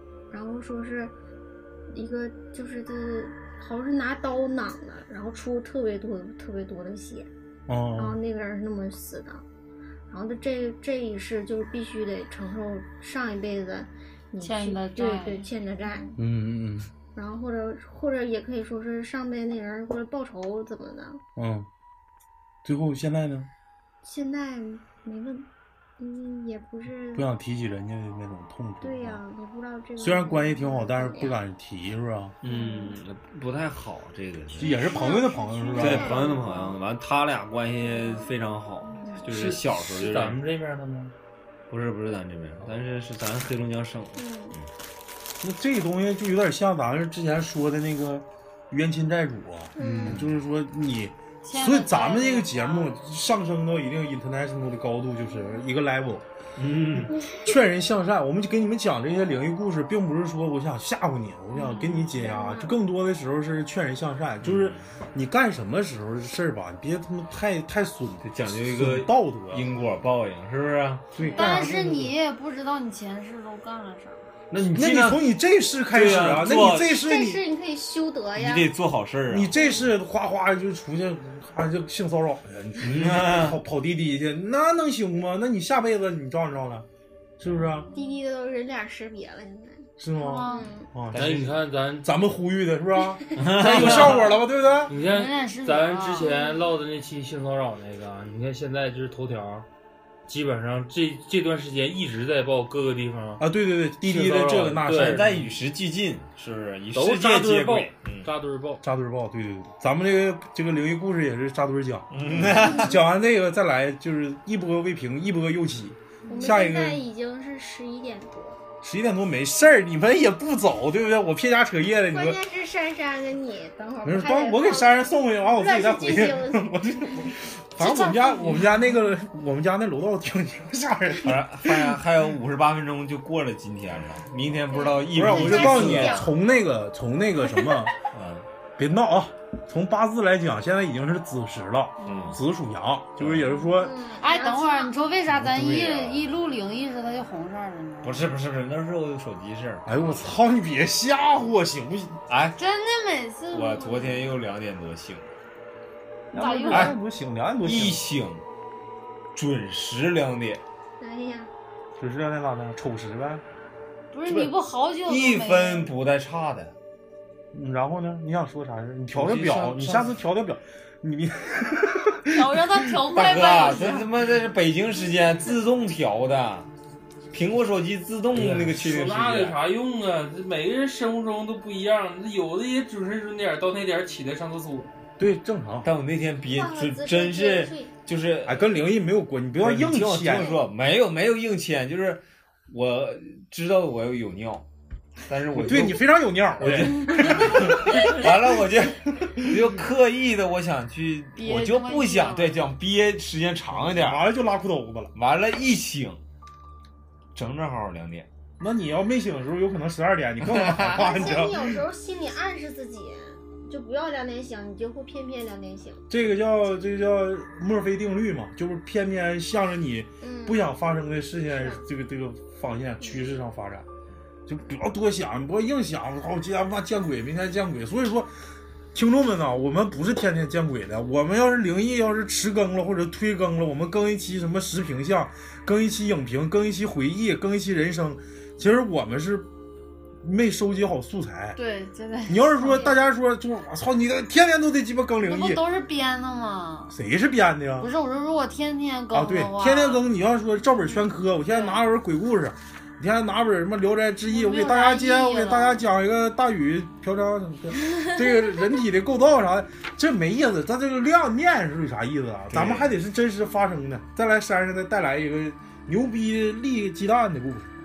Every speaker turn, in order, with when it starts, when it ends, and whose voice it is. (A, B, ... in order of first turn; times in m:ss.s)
0:00.3-0:01.1 A
0:01.9-0:07.3 A
0:07.7-0:08.2 B
0:08.0-0:09.4 A
0:10.1-0:16.2 A
0:14.4-0:15.5 C
0:16.2-0:16.9 B
0:17.1-0:21.2 A
0:21.4-0:21.7 B
0:22.6-0:23.5 B
0:24.0-0:27.3 A
0:27.1-0:29.2 B
0:28.8-0:31.4 A
0:30.0-0:32.4 B
0:32.4-0:34.9 D
0:32.5-0:32.9 A
0:34.6-0:36.3 B
0:34.6-0:36.8 A
0:35.8-0:40.4 D
0:37.8-0:38.3 A
0:38.8-0:39.2 A
0:39.3-0:41.1 E
0:41.7-0:44.7 D
0:44.2-0:44.6 A
0:45.4-0:56.3 B
0:49.8-0:50.2 A
0:49.8-0:50.3 D
0:51.4-0:53.0 C
0:56.6-0:57.1 D
0:57.4-1:09.7 B
1:01.5-1:02.8 A
1:04.4-1:04.9 D
1:08.2-1:11.2 D
1:11.2-1:12.2 B
1:11.2-1:11.7 A
1:11.3-1:14.4 C
1:14.5-1:15.2 D
1:14.6-1:17.4 B
1:15.9-1:17.0 D
1:16.9-1:18.7 A
1:18.3-1:19.5 D
1:19.3-1:26.9 B
1:19.5-1:19.9 A
1:22.8-1:23.6 D
1:27.4-1:27.9 B
1:27.4-1:27.9 D
1:27.9-1:29.9 A
1:30.0-1:31.5 B
1:30.2-1:30.7 C
1:30.4-1:30.9 A
1:31.1-1:31.6 D
1:31.1-1:32.1 E
1:32.0-1:34.9 B
1:33.0-1:33.4 A
1:33.4-1:34.3 D
1:33.6-1:34.3 E
1:33.9-1:34.4 C
1:34.9-1:39.7 E
1:35.0-1:36.6 C
1:40.3-1:43.4 E
1:43.4-1:45.4 B
1:44.0-1:45.3 E
1:44.9-1:48.3 D
1:47.0-1:48.8 E
1:48.8-1:57.0 B
1:52.1-1:53.0 D
1:56.3-1:58.6 A
1:58.8-2:02.4 B
2:02.1-2:07.3 A
2:04.0-2:12.0 B
2:07.8-2:08.1 A
2:07.8-2:08.7 C
2:11.2-2:16.4 D
2:14.7-2:16.3 A
2:15.1-2:17.9 B
2:18.1-2:18.5 D
2:18.8-2:24.0 B
2:22.0-2:22.4 C
2:22.0-2:22.4 D
2:23.2-2:23.5 D
2:23.6-2:25.0 A
2:24.2-2:28.3 C
2:25.4-2:26.0 B
2:25.4-2:26.2 D
2:28.0-2:29.9 D
2:29.8-2:32.2 B
2:32.3-2:32.6 D
2:32.6-2:34.4 C
2:33.5-2:35.3 D
2:36.3-2:37.0 C
2:36.3-2:38.0 B
2:36.7-2:37.0 D
2:37.6-2:38.4 D
2:39.4-2:40.6 D
2:41.0-2:41.5 A
2:42.0-2:43.4 B
2:44.1-2:45.9 C
2:45.1-2:46.8 D
2:47.5-2:53.0 B
2:49.1-2:50.2 D
2:52.3-2:54.1 C
2:53.1-2:56.7 D
2:57.3-2:59.6 D
2:58.4-3:04.9 E
3:05.2-3:05.9 B
3:05.8-3:08.8 D
3:06.5-3:07.9 A
3:08.4-3:10.6 B
3:09.6-3:14.7 D
3:15.3-3:24.2 D
3:15.5-3:18.6 B
3:19.2-3:19.7 B
3:21.4-3:22.6 C
3:23.7-3:25.1 B
3:25.2-3:26.2 D
3:27.4-3:28.3 D
3:28.6-3:31.7 B
3:30.4-3:31.0 D
3:30.8-3:36.1 A
3:36.1-3:43.9 B
3:40.2-3:40.7 A
3:41.5-3:41.8 A
3:43.0-3:43.3 A
3:44.5-3:48.4 B
3:48.9-3:59.5 B
4:00.2-4:01.6 B
4:01.6-4:03.0 C
4:02.3-4:05.7 B
4:05.2-4:07.0 C
4:06.9-4:07.9 B
4:07.8-4:10.0 C
4:09.1-4:27.7 B
4:11.5-4:11.8 C
4:14.3-4:15.8 C
4:22.5-4:22.9 D